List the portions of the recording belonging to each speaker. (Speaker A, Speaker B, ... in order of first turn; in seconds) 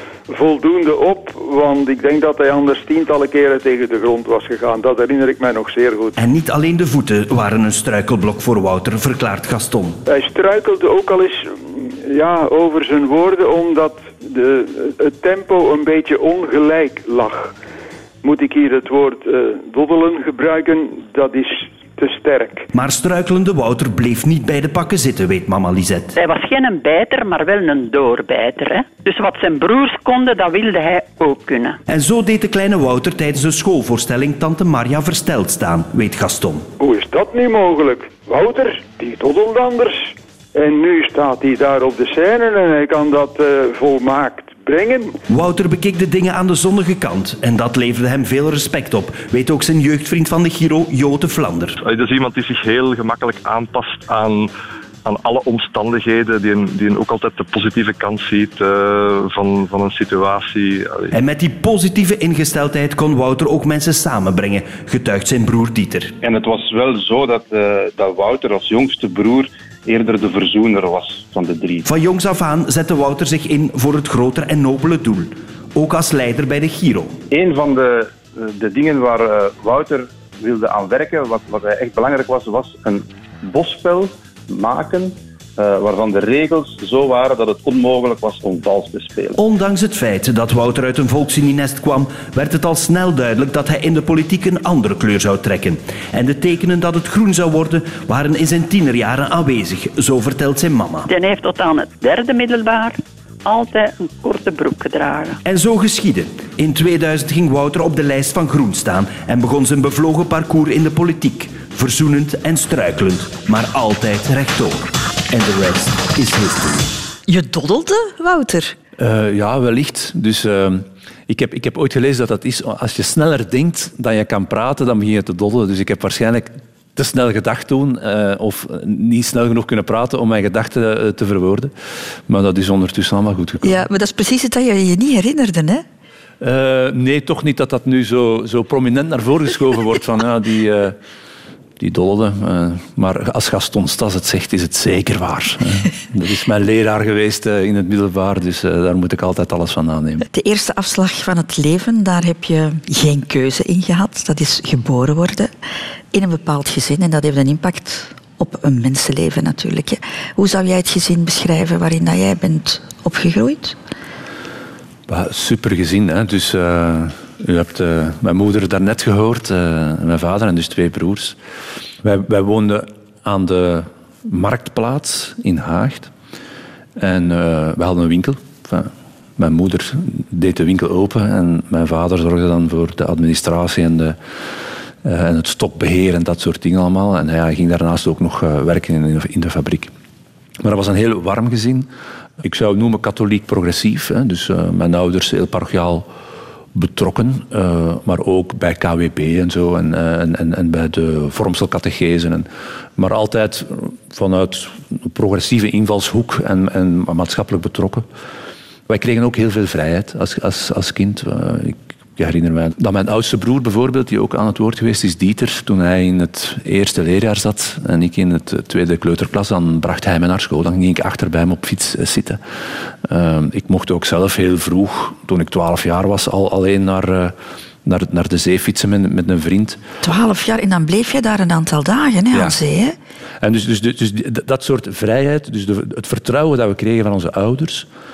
Speaker A: 0.3-6.1, 10.1-17.5, 18.2-22.7, 36.8-45.1
Speaker B: 6.2-10.0, 22.7-26.1, 31.9-36.7, 45.3-51.8, 61.1-66.2, 71.8-77.2, 89.3-101.1, 105.4-116.9
Speaker C: 26.1-31.8, 101.1-105.4
Speaker D: 51.8-54.5, 55.0-61.1
Speaker E: 66.2-71.8, 77.3-89.4
Speaker F: 117.3-118.8, 133.6-135.8, 150.3-155.5, 156.1-163.8, 230.0-233.0
Speaker G: 119.0-131.7, 132.3-133.8, 136.4-141.0, 141.8-150.2, 165.1-171.4, 172.0-176.1, 177.0-184.2, 185.0-189.9, 190.6-191.9, 192.4-196.1, 196.7-208.1, 208.9-222.4, 223.0-229.8, 233.4-237.9